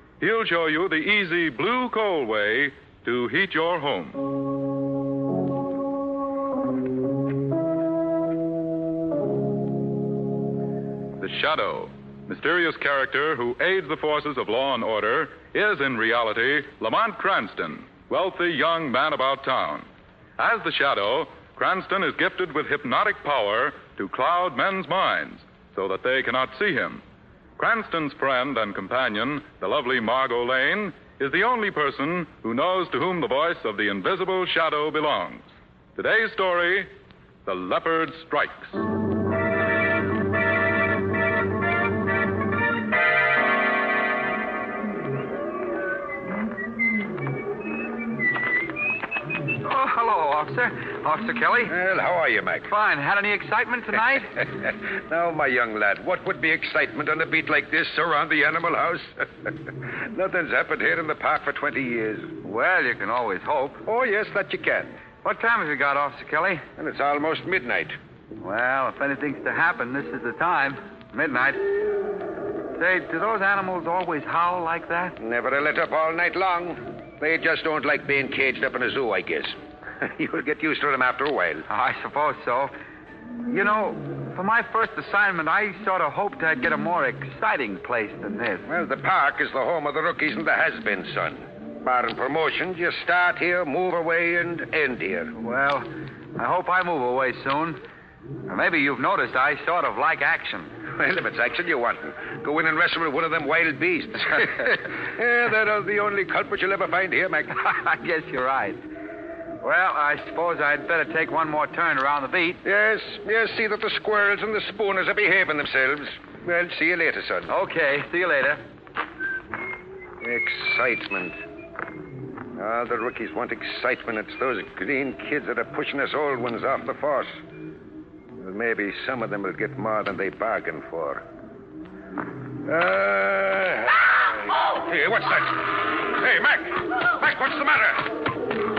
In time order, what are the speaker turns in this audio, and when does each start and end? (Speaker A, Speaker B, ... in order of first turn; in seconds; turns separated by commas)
Speaker A: 0.2-4.2, Speaker A: 11.2-19.9, Speaker A: 20.4-27.0, Speaker A: 27.6-36.9, Speaker A: 37.5-38.8, Speaker B: 49.6-51.7, Speaker C: 51.7-52.7, Speaker B: 52.7-54.3, Speaker C: 54.6-62.4, Speaker B: 62.4-63.8, Speaker C: 63.9-65.0, Speaker B: 65.2-66.6, Speaker C: 66.8-68.0, Speaker B: 68.4-71.7, Speaker B: 72.8-75.2, Speaker C: 75.2-81.6, Speaker B: 81.7-82.7, Speaker B: 83.5-88.7, Speaker C: 88.7-95.3, Speaker B: 95.4-97.8, Speaker B: 98.5-100.7, Speaker C: 100.9-107.5, Speaker B: 107.5-108.8, Speaker B: 109.6-112.6, Speaker C: 112.6-117.5, Speaker B: 117.5-118.6, Speaker C: 120.2-121.4, Speaker C: 122.5-127.4, Speaker C: 128.3-131.2, Speaker C: 132.6-138.3